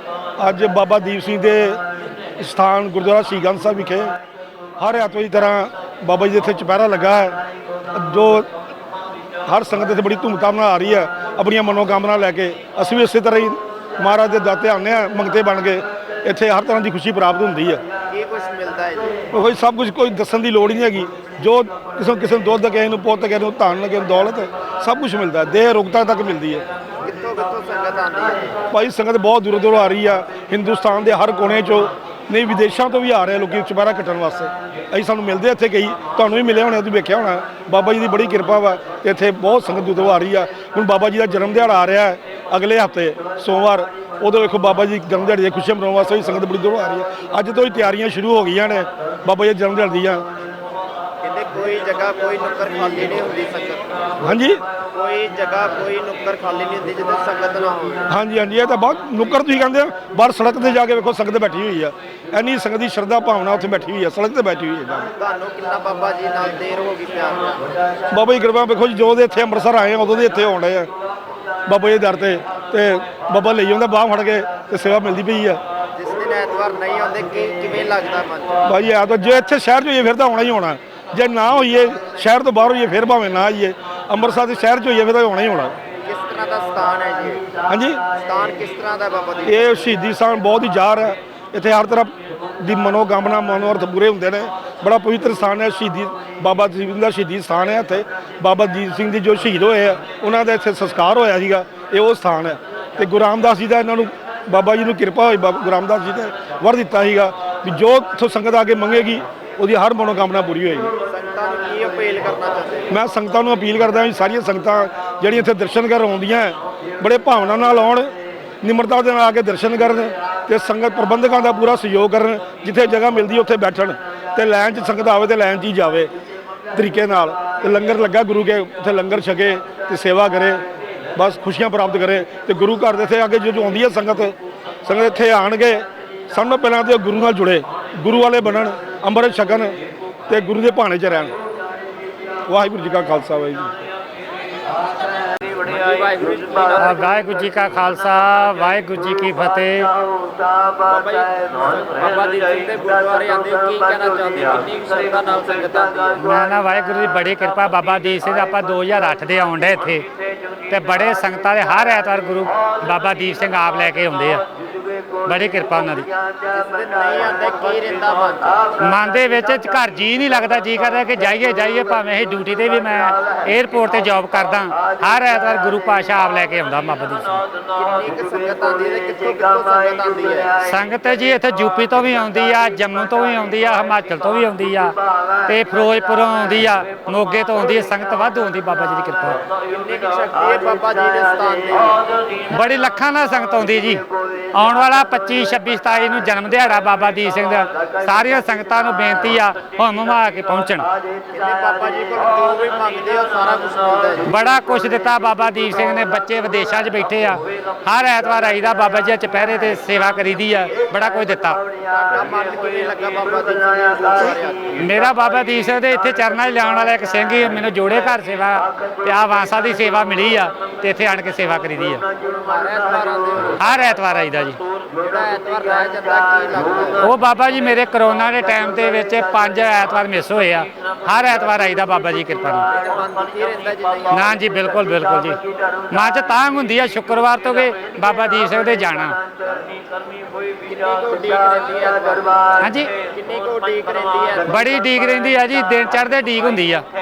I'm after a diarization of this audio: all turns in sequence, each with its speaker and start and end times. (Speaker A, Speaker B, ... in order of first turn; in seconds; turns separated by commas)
Speaker A: 0.4-1.8, Speaker A: 2.4-4.1, Speaker A: 4.8-7.4, Speaker A: 7.9-8.5, Speaker A: 9.5-17.8, Speaker B: 18.1-19.3, Speaker A: 19.3-26.6, Speaker B: 27.0-28.6, Speaker A: 28.7-50.2, Speaker B: 51.2-54.1, Speaker A: 54.2-54.6, Speaker B: 54.9-58.1, Speaker A: 58.1-65.1, Speaker B: 65.2-67.7, Speaker A: 68.1-70.9, Speaker A: 71.7-75.6, Speaker B: 76.0-78.6, Speaker A: 78.7-85.7, Speaker B: 86.0-87.5, Speaker A: 87.7-88.0, Speaker B: 88.2-90.0, Speaker A: 89.5-110.9, Speaker B: 111.1-112.9, Speaker A: 112.9-118.1, Speaker A: 118.6-126.1, Speaker A: 126.7-130.6, Speaker A: 131.2-134.3, Speaker A: 134.8-139.8, Speaker A: 140.3-141.3, Speaker A: 142.5-143.7, Speaker B: 145.5-147.1, Speaker C: 146.8-149.9, Speaker B: 150.8-156.2, Speaker C: 156.2-160.1, Speaker C: 160.7-164.4, Speaker C: 165.2-166.1, Speaker B: 166.4-168.7, Speaker C: 168.8-177.4, Speaker B: 177.7-180.6, Speaker C: 180.6-189.4, Speaker B: 189.6-192.1, Speaker C: 192.5-200.9, Speaker B: 201.3-204.3, Speaker C: 204.2-211.6, Speaker B: 211.9-214.8, Speaker C: 214.8-222.0, Speaker B: 222.3-223.8, Speaker C: 223.6-224.6, Speaker B: 224.9-227.0, Speaker C: 227.0-232.7, Speaker B: 232.7-234.3, Speaker C: 234.1-239.2, Speaker B: 240.6-244.9, Speaker C: 242.6-242.9, Speaker C: 244.5-246.9